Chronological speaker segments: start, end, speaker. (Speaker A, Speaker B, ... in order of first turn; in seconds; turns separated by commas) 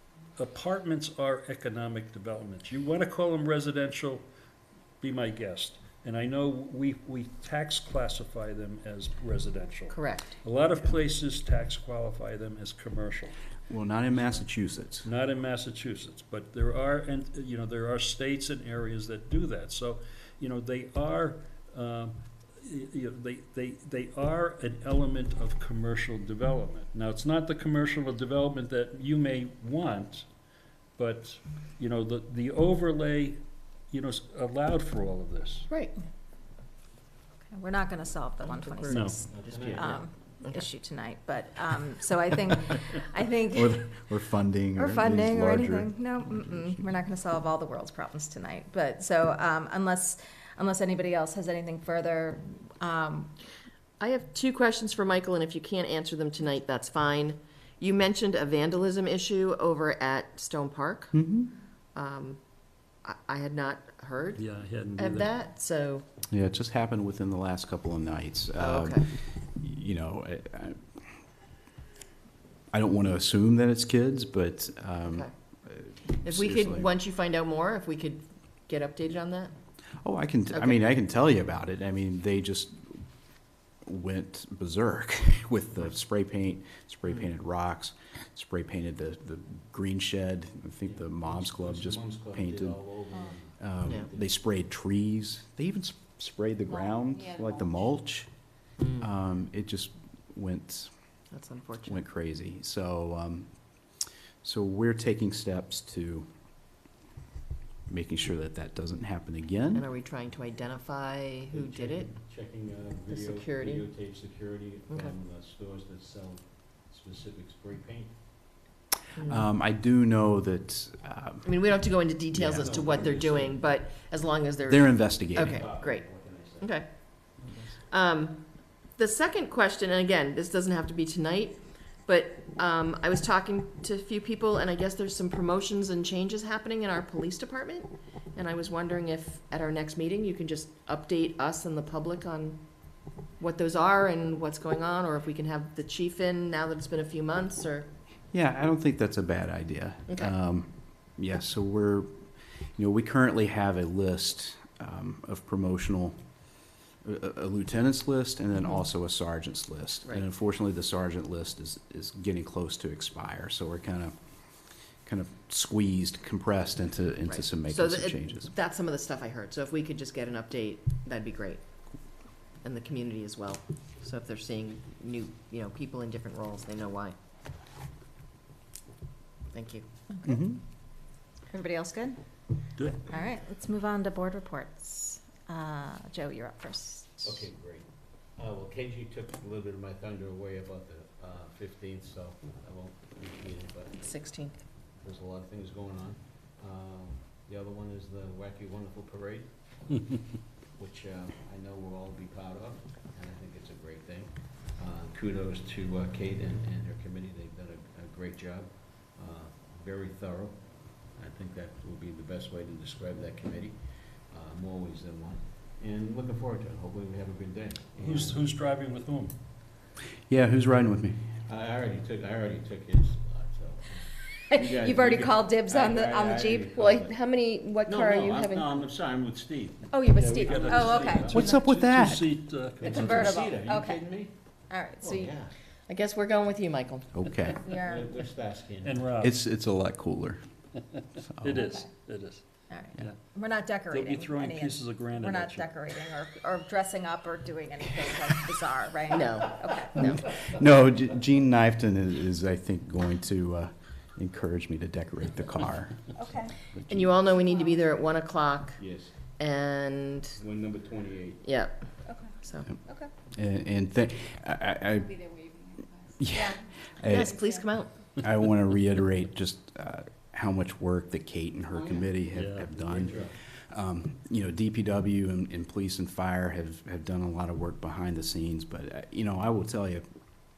Speaker A: 0.4-4.2, Speaker A: 5.0-13.3, Speaker B: 9.9-10.4, Speaker C: 13.7-15.1, Speaker A: 14.2-14.4, Speaker A: 15.0-30.3, Speaker A: 31.0-35.7, Speaker B: 35.7-36.0, Speaker D: 37.5-44.0, Speaker B: 38.4-40.6, Speaker A: 38.9-39.2, Speaker E: 39.3-40.0, Speaker C: 43.5-45.9, Speaker D: 44.8-53.3, Speaker B: 54.0-61.2, Speaker C: 61.1-61.5, Speaker B: 62.0-62.4, Speaker B: 63.0-64.4, Speaker A: 64.4-65.3, Speaker B: 65.0-66.0, Speaker C: 66.3-70.8, Speaker B: 68.6-69.0, Speaker C: 72.7-76.9, Speaker B: 76.2-79.5, Speaker C: 80.0-83.0, Speaker B: 80.5-80.8, Speaker C: 83.8-92.8, Speaker E: 90.8-94.3, Speaker C: 93.6-98.3, Speaker C: 99.0-100.9, Speaker B: 101.3-102.0, Speaker C: 101.9-103.6, Speaker C: 104.4-106.3, Speaker C: 107.9-109.9, Speaker B: 109.7-112.1, Speaker E: 111.5-118.2, Speaker B: 113.1-113.8, Speaker B: 119.2-119.4, Speaker C: 119.2-121.5, Speaker B: 121.5-126.1, Speaker C: 122.3-122.7, Speaker E: 122.5-123.7, Speaker C: 124.7-125.6, Speaker E: 125.3-126.7, Speaker B: 126.6-126.9, Speaker B: 127.9-142.6, Speaker B: 143.4-147.9, Speaker C: 148.3-152.2, Speaker C: 152.8-156.2, Speaker C: 157.0-164.2, Speaker C: 165.1-168.5, Speaker B: 167.3-171.6, Speaker B: 172.6-177.2, Speaker B: 179.5-179.9, Speaker D: 180.1-180.4, Speaker C: 180.2-180.6, Speaker D: 181.5-182.2, Speaker A: 182.8-183.1, Speaker D: 183.1-187.4, Speaker E: 187.2-194.0, Speaker B: 194.0-194.6, Speaker E: 195.0-200.0, Speaker E: 200.8-213.8, Speaker E: 214.3-218.5, Speaker A: 218.0-219.3, Speaker C: 220.3-221.2, Speaker E: 221.5-227.1, Speaker D: 224.5-226.7, Speaker B: 226.7-228.7, Speaker E: 227.8-231.5, Speaker D: 229.9-231.7, Speaker A: 230.1-233.3, Speaker C: 231.3-232.3, Speaker E: 232.8-234.3, Speaker D: 232.9-234.1, Speaker D: 234.7-235.3, Speaker E: 235.0-235.5, Speaker B: 235.9-237.1, Speaker C: 237.1-237.6, Speaker D: 237.6-238.2, Speaker E: 237.6-239.1, Speaker A: 238.8-239.4, Speaker C: 239.2-240.4, Speaker A: 241.2-242.4, Speaker D: 241.6-241.9, Speaker D: 242.7-250.3, Speaker A: 243.9-245.7, Speaker B: 249.1-250.2, Speaker C: 250.5-257.1, Speaker D: 256.2-256.5, Speaker B: 256.9-258.8, Speaker E: 258.8-259.1, Speaker B: 259.4-260.4, Speaker E: 260.4-261.5, Speaker B: 261.4-261.9, Speaker D: 262.1-262.3, Speaker B: 262.4-262.7, Speaker D: 262.9-263.1, Speaker C: 263.3-265.4, Speaker D: 265.5-265.8, Speaker C: 266.2-267.3, Speaker D: 266.3-267.1, Speaker B: 267.1-267.9, Speaker C: 268.2-280.0, Speaker E: 271.7-272.1, Speaker A: 272.3-272.7, Speaker E: 272.8-273.3